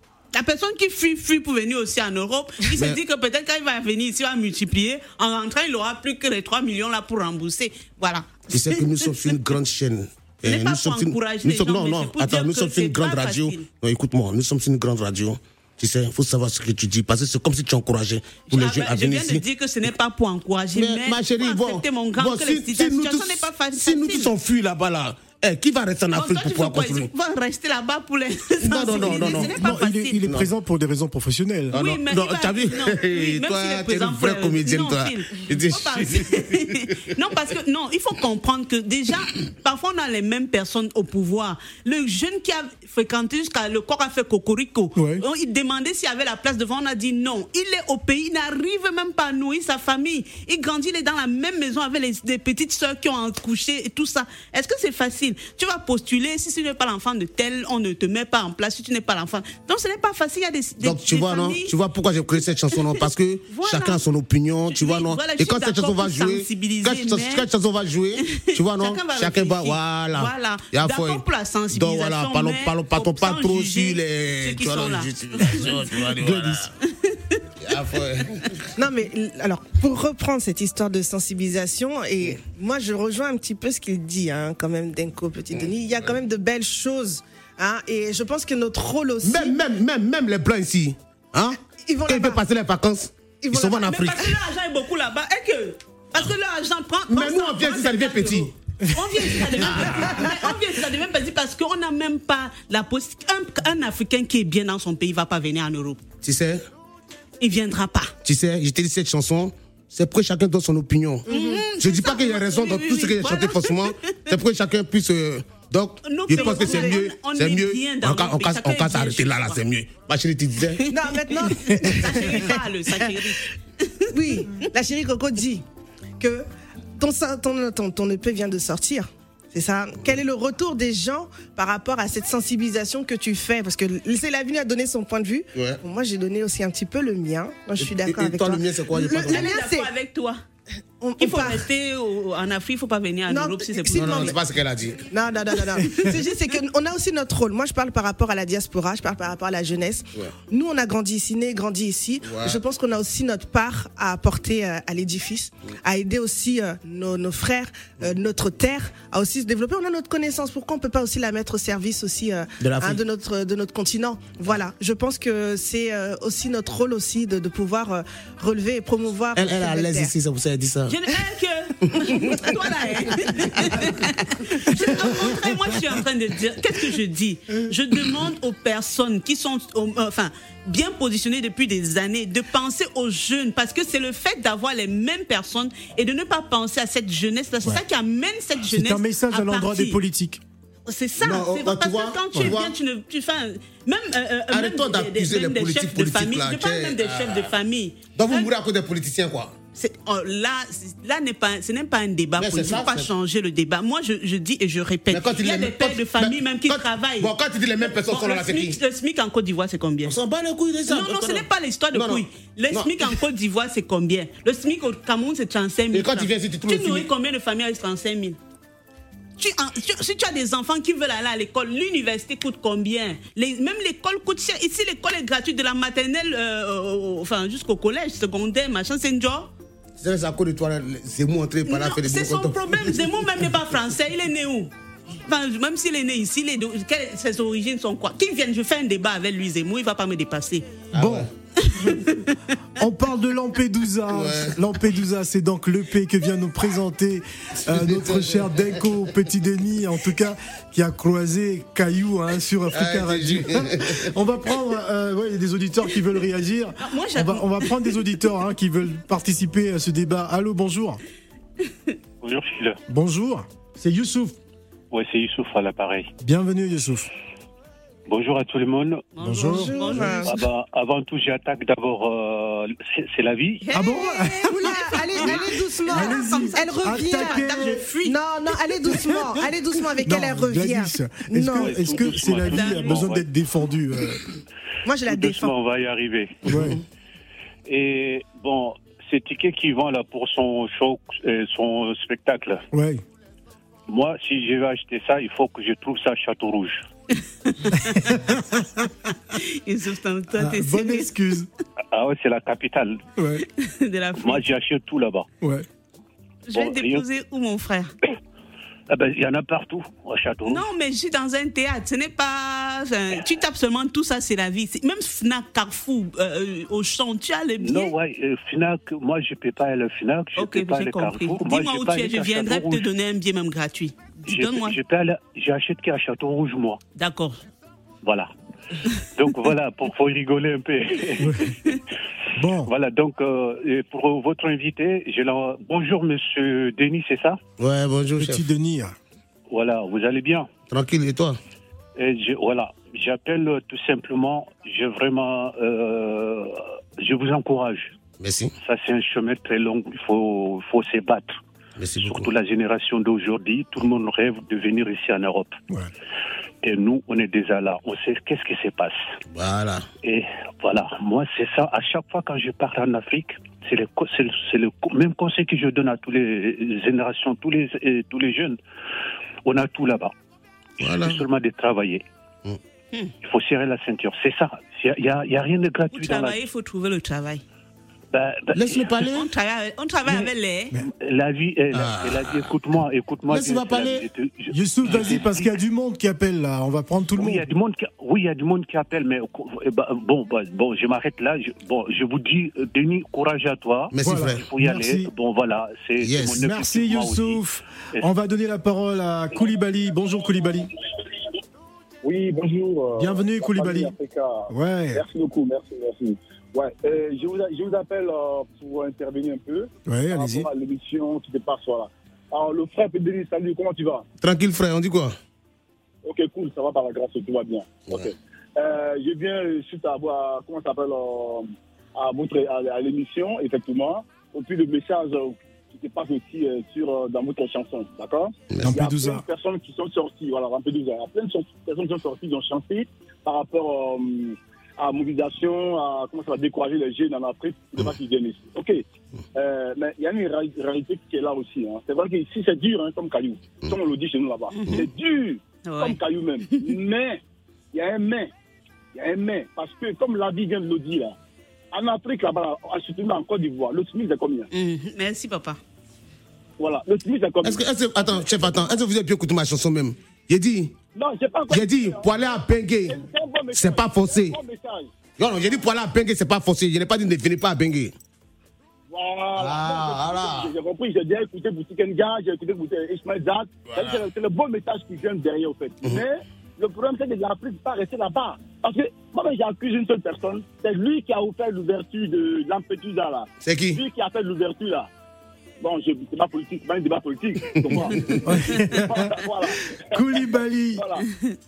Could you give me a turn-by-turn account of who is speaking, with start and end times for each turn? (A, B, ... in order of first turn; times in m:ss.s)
0:00.3-0:09.1 A
0:08.5-0:19.4 B
0:10.4-0:13.7 A
0:18.5-0:24.3 A
0:20.7-0:27.1 B
0:26.1-0:30.2 A
0:28.6-0:29.6 B
0:29.1-0:31.8 C
0:31.7-0:36.7 B
0:31.7-1:01.7 A
0:45.0-0:45.2 C
1:00.8-1:11.2 B
1:03.5-1:04.0 A
1:04.7-1:07.5 A
1:08.3-1:16.0 A
1:11.7-1:16.7 B
1:16.1-1:16.7 C
1:16.9-1:17.4 A
1:17.6-1:18.7 B
1:18.8-1:29.6 D
1:25.6-1:26.1 B
1:29.2-1:34.4 B
1:31.8-1:32.4 D
1:33.4-1:34.0 D
1:33.8-1:46.0 A
1:37.1-1:38.5 B
1:39.6-1:40.4 B
1:46.2-1:46.6 B
1:47.4-1:48.1 A
1:48.2-2:00.8 B
1:51.3-1:54.0 A
1:51.3-1:51.6 D
1:56.0-1:59.6 A
1:56.3-1:57.0 D
2:00.9-2:03.2 D
2:01.3-2:04.6 A
2:04.1-2:05.6 D
2:06.2-2:06.5 D
2:07.0-2:19.9 D
2:15.6-2:15.8 B
2:17.8-2:19.5 B
2:19.2-2:20.4 A
2:21.0-2:21.7 D
2:21.2-2:24.4 A
2:23.3-2:24.4 D
2:24.0-2:25.1 B
2:25.1-2:50.1 D
2:32.2-2:32.6 B
2:42.6-2:43.0 B
2:49.4-2:51.0 B
2:50.9-3:10.0 A
2:51.9-2:52.4 B
2:53.5-2:53.9 B
3:08.6-3:10.4 C
3:10.9-3:18.5 A
3:11.2-3:12.8 B
3:14.5-3:17.5 B
3:18.2-3:19.6 B
3:19.8-3:30.2 A
3:22.4-3:23.1 B
3:25.1-3:28.8 B
3:30.1-3:33.2 B
3:30.9-3:38.4 A
3:35.9-3:37.1 B
3:39.4-3:49.5 A
3:50.0-3:53.8 B
3:51.7-3:54.7 A
3:55.2-4:00.7 A
4:00.9-4:01.3 B
4:00.9-4:01.3 C
4:01.6-4:02.4 A
4:02.8-4:21.0 C
4:04.1-4:04.6 B
4:07.7-4:08.7 B
4:12.7-4:14.1 B
4:16.8-4:18.1 A
4:22.2-4:22.8 E
4:22.9-4:24.4 C
4:24.9-4:26.1 E
4:26.2-4:27.1 C
4:28.1-4:29.1 E
4:29.2-4:30.4 A
4:29.2-4:30.2 C
4:29.5-4:30.3 D
4:30.2-4:33.7 E
4:33.6-4:38.2 A
4:33.7-4:35.3 C
4:34.5-4:42.0 D
4:35.9-4:37.8 C
4:40.0-4:44.2 C
4:41.5-4:43.3 E
4:41.9-4:43.1 A
4:44.8-4:45.6 D
4:45.0-4:46.5 E
4:46.5-4:46.8 C
4:46.5-4:46.8 B
4:47.7-4:52.6 E
4:52.7-4:53.0 C
4:53.9-4:56.9 E
4:57.5-4:58.1 A
4:57.9-4:58.9 C
4:59.3-5:01.1 A
5:00.4-5:01.5 C
5:01.9-5:03.0 E
5:03.2-5:03.4 C
5:03.6-5:04.4 A
5:04.2-5:05.3 E
5:05.4-5:05.7 C
5:06.5-5:07.9 A
5:06.5-5:07.1 E
5:08.9-5:10.6 E
5:10.5-5:17.9 A
5:17.6-5:22.9 E
5:20.4-5:24.8 A
5:24.3-5:26.8 E
5:27.0-5:27.4 A
5:28.0-5:28.3 E
5:29.0-5:31.5 E
5:31.2-5:31.5 C
5:32.4-5:32.7 C
5:32.6-5:37.4 E
5:37.6-5:38.5 B
5:38.2-5:39.0 C
5:39.5-5:40.5 E
5:40.7-5:41.4 B
5:42.0-5:48.0 E
5:48.2-5:48.5 B
5:48.6-5:51.4 E
5:51.8-5:52.3 B
5:52.0-5:55.6 E
5:56.6-5:59.1 E
5:59.3-5:59.9 B
6:00.0-6:08.6 E
6:09.5-6:10.1 E
6:10.8-6:12.0 E
6:10.8-6:11.2 B
6:13.2-6:16.4 E
6:15.9-6:17.4 A
6:18.1-6:19.0 E
6:18.5-6:19.3 B
6:19.0-6:20.8 A
6:20.1-6:25.5 E
6:21.7-6:22.5 B
6:23.3-6:24.1 B
6:24.5-6:27.5 C
6:27.2-6:37.4 E
6:33.9-6:34.4 B
6:34.0-6:35.1 C
6:36.0-6:36.4 B
6:36.4-6:40.7 C
6:42.0-6:54.0 F
6:43.0-6:43.9 C
6:44.5-6:45.0 C
6:49.9-6:50.5 C
6:54.2-6:55.2 B
6:56.0-7:18.8 F
7:08.5-7:08.8 B
7:08.6-7:09.3 C
7:19.4-7:27.2 F
7:24.5-7:24.9 A
7:25.6-7:26.7 A
7:27.7-7:28.3 F
7:28.9-7:31.2 F
7:31.7-7:34.5 F
7:34.5-7:35.6 A
7:36.6-7:38.7 F
7:37.4-7:40.7 B
7:41.0-7:42.3 F
7:41.5-7:43.0 B
7:42.9-7:44.9 F
7:43.5-7:44.4 B
7:45.2-7:47.9 B
7:48.9-8:04.9 F
7:49.4-7:50.5 B
7:53.7-7:54.0 B
8:03.4-8:03.8 B
8:05.6-8:11.1 F
8:08.2-8:09.1 C
8:09.9-8:10.9 C